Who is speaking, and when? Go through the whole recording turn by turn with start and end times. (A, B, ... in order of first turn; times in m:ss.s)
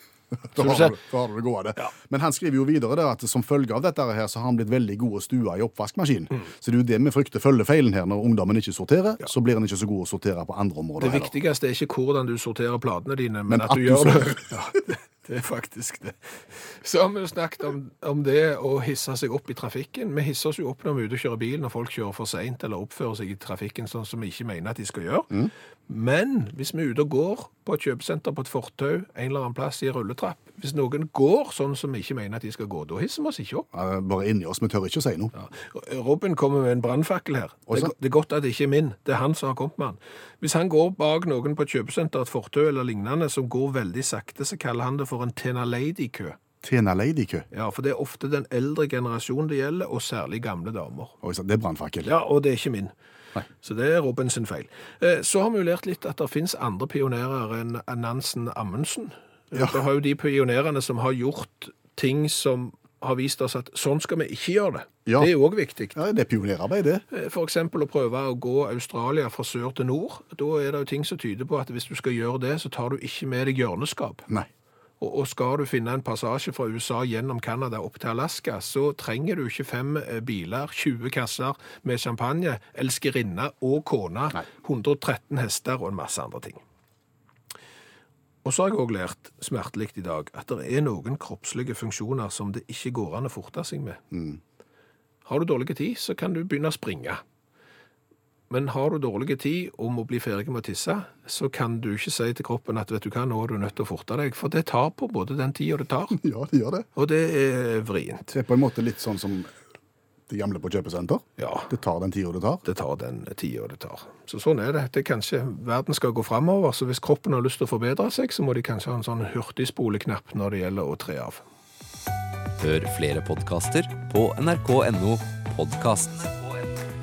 0:00.5-0:11.3 A
0:00.6-0:01.0 B
0:11.0-0:33.7 B
0:13.5-0:14.6 A
0:33.7-0:35.3 A
0:35.4-0:46.4 B
0:37.7-0:37.9 A
0:46.6-0:47.5 A
0:47.5-0:51.1 B
0:51.2-0:52.1 A
0:52.0-0:52.9 B
0:53.6-1:06.0 B
1:05.1-1:05.3 A
1:05.9-1:07.0 A
1:07.1-1:14.2 B
1:15.0-1:26.6 B
1:28.4-1:34.0 B
1:34.1-1:34.4 A
1:35.2-1:37.2 B
1:38.5-1:46.2 B
1:46.1-1:46.9 A
1:47.0-1:48.4 B
1:48.3-1:49.5 A
1:50.3-1:52.6 A
1:51.4-1:51.7 B
1:52.6-2:01.4 B
2:02.6-2:06.6 C